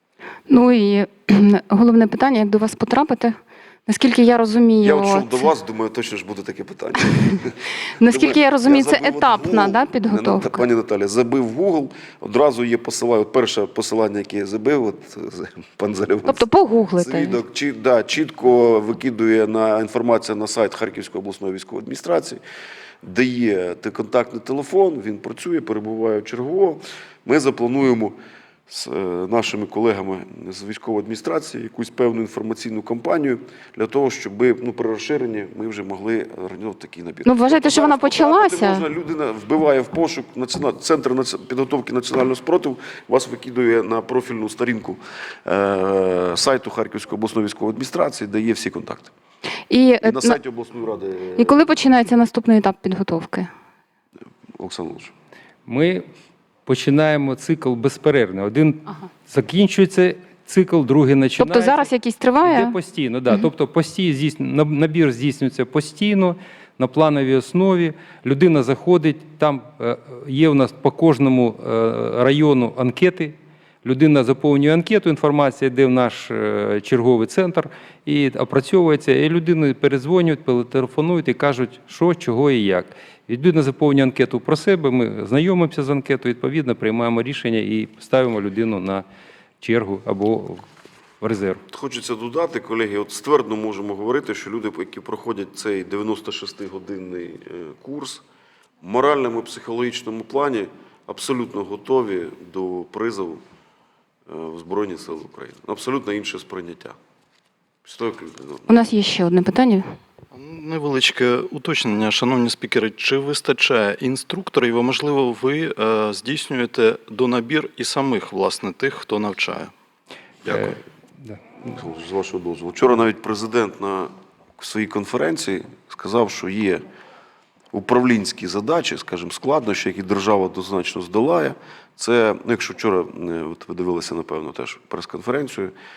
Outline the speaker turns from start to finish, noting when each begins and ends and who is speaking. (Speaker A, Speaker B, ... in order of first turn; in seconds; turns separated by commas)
Speaker A: 0.5-5.5, Speaker B: 4.8-16.4, Speaker A: 8.0-10.6, Speaker A: 16.3-17.4, Speaker B: 17.0-22.4, Speaker B: 23.0-28.2, Speaker B: 28.7-49.1, Speaker A: 37.2-38.9, Speaker A: 49.7-50.4, Speaker B: 50.0-51.8, Speaker A: 51.4-53.5, Speaker B: 54.6-55.1, Speaker C: 55.7-56.1, Speaker C: 56.7-61.9, Speaker A: 61.4-62.8, Speaker C: 62.4-89.0, Speaker C: 89.6-90.6, Speaker C: 91.2-91.6, Speaker B: 91.7-98.2, Speaker B: 98.8-103.4, Speaker B: 104.3-107.0, Speaker B: 107.8-108.8, Speaker A: 108.7-109.9, Speaker D: 110.3-119.7, Speaker D: 120.5-120.8, Speaker B: 121.7-126.8, Speaker B: 127.7-135.7